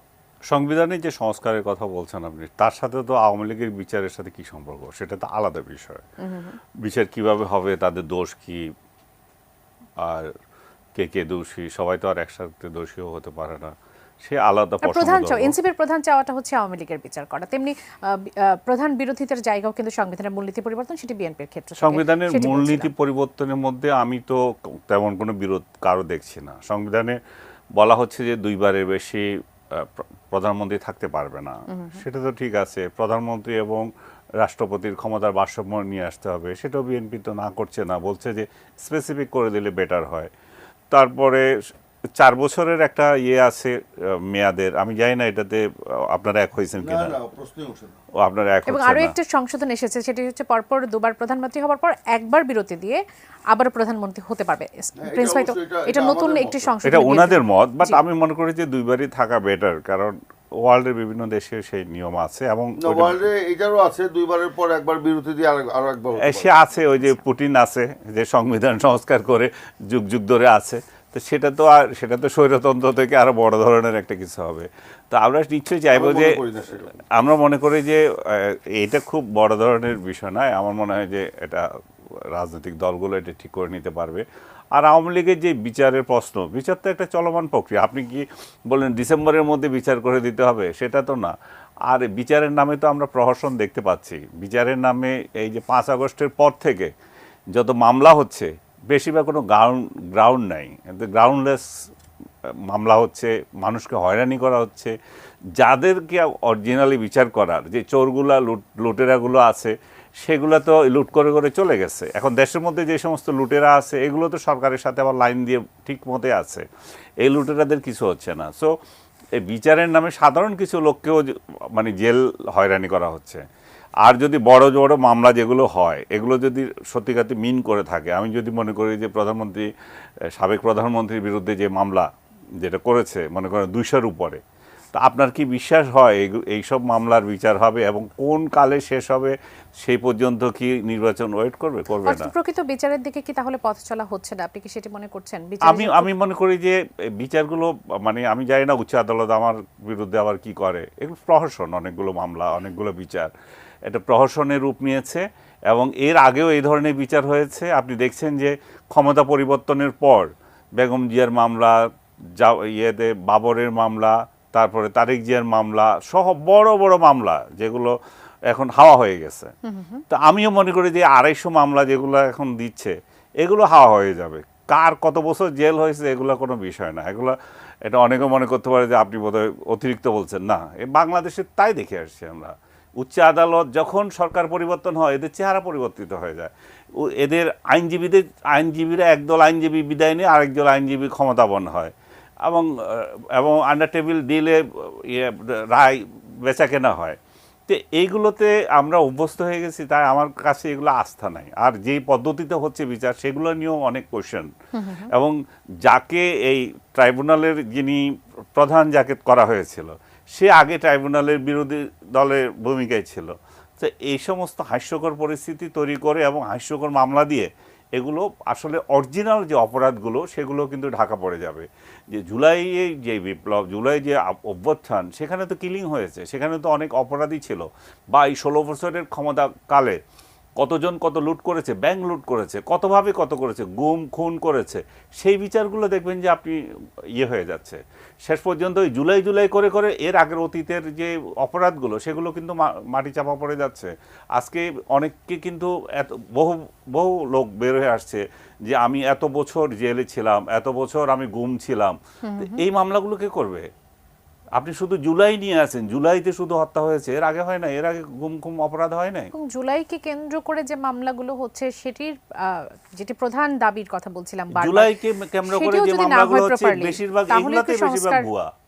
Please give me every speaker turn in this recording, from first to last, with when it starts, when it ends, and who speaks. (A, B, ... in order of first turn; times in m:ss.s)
0:00.5-0:06.0 A
0:06.2-0:06.6 B
0:06.8-0:08.6 A
0:10.0-0:10.3 A
0:11.0-0:15.5 A
0:14.8-0:22.9 B
0:21.8-0:27.2 A
0:27.8-0:33.9 A
0:31.7-0:32.0 B
0:34.4-0:40.3 A
0:40.9-0:41.5 A
0:42.2-0:47.1 A
0:46.8-0:47.9 C
0:48.2-0:49.1 A
0:48.7-0:58.0 B
0:55.0-0:56.6 C
0:56.8-1:03.3 A
1:02.8-1:06.5 C
1:06.2-1:16.4 A
1:15.9-1:16.9 C
1:17.1-1:21.6 A
1:22.3-1:31.3 A
1:31.9-1:36.9 A
1:37.5-1:41.6 A
1:42.7-1:44.9 A
1:45.6-1:56.6 A
1:57.2-1:58.7 A
1:59.4-2:03.4 A
2:04.0-2:09.7 A
2:10.3-2:12.1 A
2:12.6-2:14.4 A
2:14.9-2:22.3 A
2:22.0-2:26.1 B
2:25.6-2:33.3 A
2:33.9-2:41.8 A
2:42.4-2:47.9 A
2:48.5-2:49.5 A
2:49.6-2:50.0 B
2:50.1-3:11.9 A
3:12.4-3:24.5 A
3:24.7-3:25.1 B
3:25.1-3:28.0 A
3:28.6-3:50.0 A
3:50.6-3:56.6 A
3:57.1-4:13.7 A
4:12.2-4:12.6 B
4:14.6-4:19.3 A
4:19.3-4:24.9 B
4:24.5-4:28.5 A
4:25.5-4:28.3 B